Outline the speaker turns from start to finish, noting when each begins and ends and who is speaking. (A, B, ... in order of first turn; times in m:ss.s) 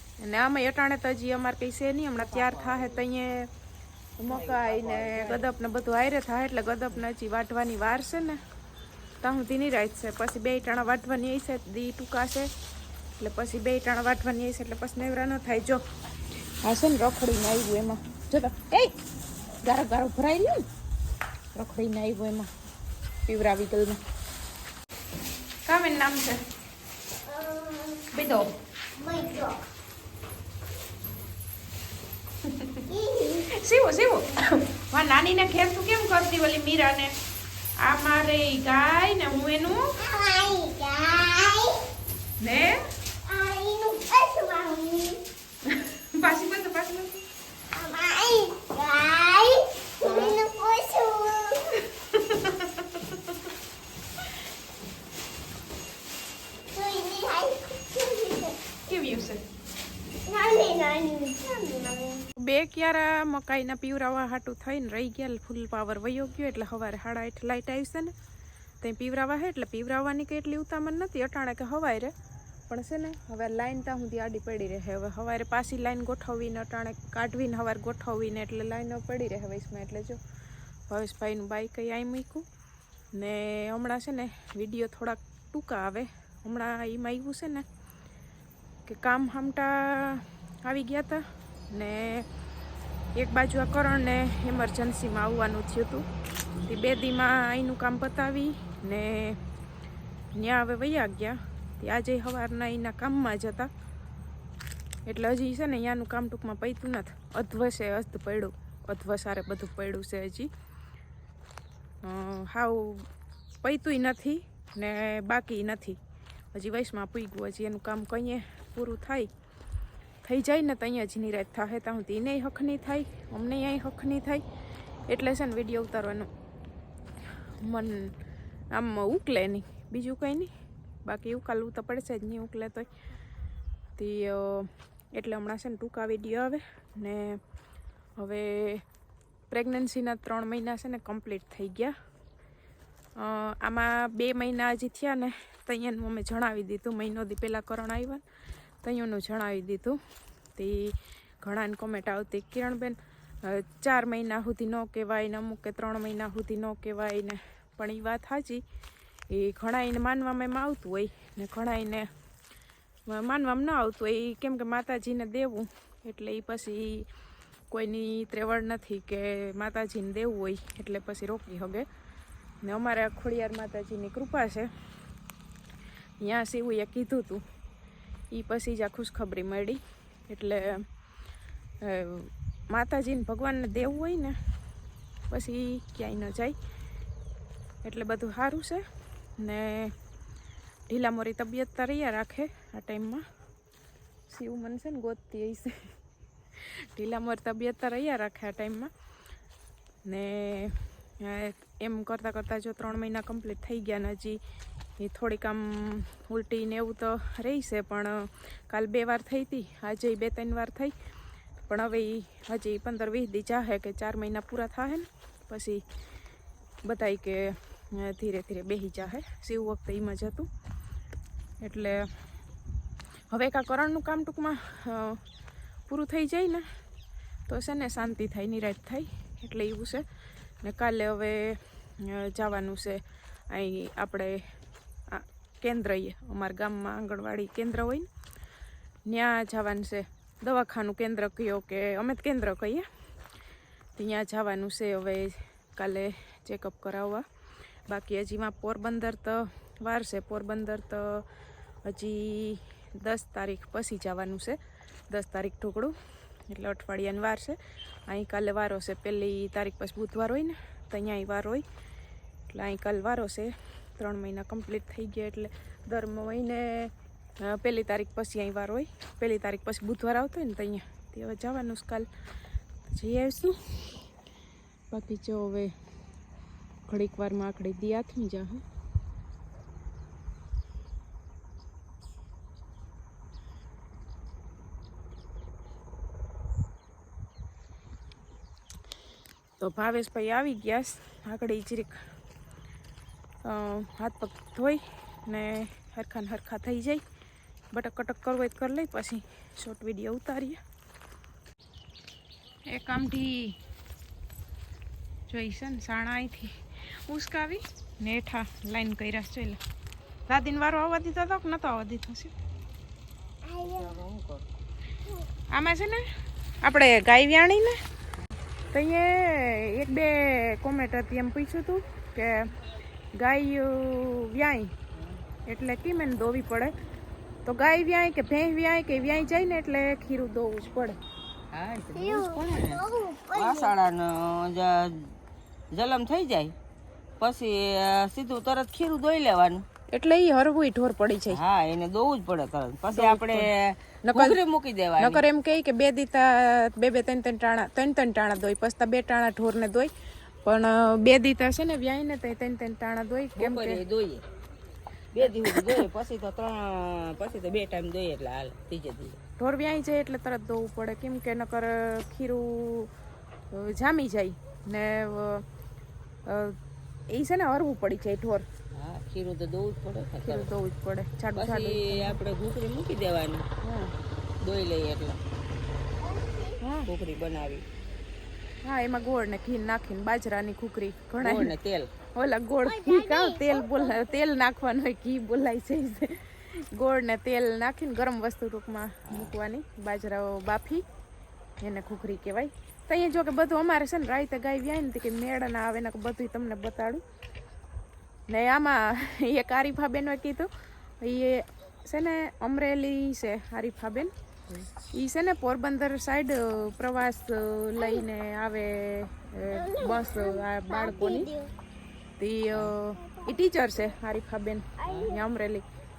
0:00.2-0:03.5 A
0:02.1-0:03.1 B
0:04.2-0:08.4 A
0:04.2-0:05.8 B
0:09.2-0:12.5 A
0:13.2-0:15.8 A
0:16.6-0:18.9 A
0:19.6-0:20.6 A
0:21.5-0:22.5 A
0:23.2-0:24.0 A
0:25.6-0:26.4 A
0:27.2-0:28.1 C
0:28.1-0:28.5 A
0:28.9-0:29.6 C
0:32.4-0:32.8 A
0:32.9-0:33.6 C
0:33.5-0:37.1 A
0:37.8-0:39.9 A
0:40.0-0:41.8 C
0:42.4-0:42.8 A
0:43.2-0:45.2 C
0:45.7-0:47.2 A
0:47.7-0:51.8 C
0:50.0-0:50.4 A
0:52.0-0:53.3 A
0:56.7-0:58.6 C
0:58.9-0:59.4 A
1:00.3-1:02.2 C
1:02.4-1:08.1 A
1:08.8-1:12.1 A
1:12.7-1:20.2 A
1:20.9-1:22.4 A
1:23.1-1:27.6 A
1:28.8-1:32.3 A
1:33.1-1:36.0 A
1:36.6-1:39.4 A
1:40.3-1:43.7 A
1:45.0-1:50.5 A
1:52.0-1:53.1 A
1:53.6-1:56.0 A
1:56.5-1:59.3 A
2:00.2-2:04.4 A
2:05.1-2:06.3 A
2:07.6-2:08.1 A
2:08.7-2:10.5 A
2:11.0-2:12.9 A
2:14.0-2:17.4 A
2:18.2-2:18.8 A
2:19.5-2:21.9 A
2:23.2-2:28.2 A
2:28.8-2:30.0 A
2:30.6-2:38.6 A
2:39.3-2:42.1 A
2:43.1-2:47.1 A
2:47.7-2:51.8 A
2:52.6-2:54.7 A
2:56.2-2:57.4 A
2:58.3-3:00.8 A
3:01.8-3:04.4 A
3:05.3-3:06.6 A
3:07.8-3:08.8 A
3:09.4-3:09.9 A
3:10.9-3:13.2 A
3:14.3-3:15.9 A
3:16.6-3:18.9 A
3:20.0-3:24.4 A
3:25.0-3:30.9 A
3:31.6-3:35.8 A
3:36.8-3:40.5 A
3:41.6-3:42.1 A
3:43.3-3:45.2 A
3:45.9-3:46.6 A
3:47.5-3:50.0 A
3:50.6-3:54.5 A
3:55.1-3:58.1 A
3:59.1-4:02.8 A
4:04.0-4:07.2 A
4:07.9-4:11.2 A
4:11.8-4:14.6 A
4:15.1-4:15.9 A
4:16.5-4:17.6 A
4:18.1-4:21.6 A
4:22.5-4:32.1 A
4:32.9-4:34.0 A
4:34.9-4:35.7 A
4:36.9-4:38.6 A
4:49.6-4:52.0 A
4:53.4-4:57.0 A
4:57.7-5:00.6 A
5:02.7-5:03.6 A
5:05.3-5:09.6 A
5:10.3-5:12.3 A
5:13.4-5:14.0 C
5:13.6-5:14.5 B
5:15.5-5:16.0 A
5:16.6-5:17.8 A
5:18.7-5:22.5 A
5:23.2-5:24.7 A
5:24.9-5:25.2 B
5:25.5-5:26.7 A
5:27.4-5:31.0 A
5:31.5-5:35.2 B
5:31.9-5:33.8 C
5:35.7-5:36.5 B
5:37.2-5:39.6 B
5:39.9-5:41.4 A
5:41.3-5:45.2 B
5:42.9-5:43.5 A
5:44.0-5:44.4 A
5:45.0-5:49.9 A
5:50.4-5:53.8 A
5:53.4-5:54.2 B
5:55.1-5:59.2 B
5:55.2-5:55.8 A
5:59.4-6:02.9 A
6:03.5-6:05.4 A
6:06.2-6:06.6 A
6:07.1-6:08.4 A
6:08.7-6:10.5 B
6:10.2-6:12.2 A
6:11.3-6:13.4 B
6:13.6-6:13.9 A
6:14.4-6:15.2 B
6:16.0-6:16.6 C
6:16.6-6:16.9 A
6:16.9-6:17.6 B
6:18.6-6:21.5 A
6:21.2-6:21.9 B
6:22.1-6:30.8 A
6:22.6-6:24.1 C
6:29.0-6:29.4 B
6:31.6-6:37.0 A
6:38.3-6:40.5 A
6:41.0-6:44.1 A
6:44.9-6:51.3 A
6:47.8-6:48.0 C
6:49.5-6:51.5 C
6:52.2-6:55.6 A
6:52.5-6:52.8 B
6:52.9-6:53.4 C
6:54.8-6:55.2 C
6:54.9-6:55.1 B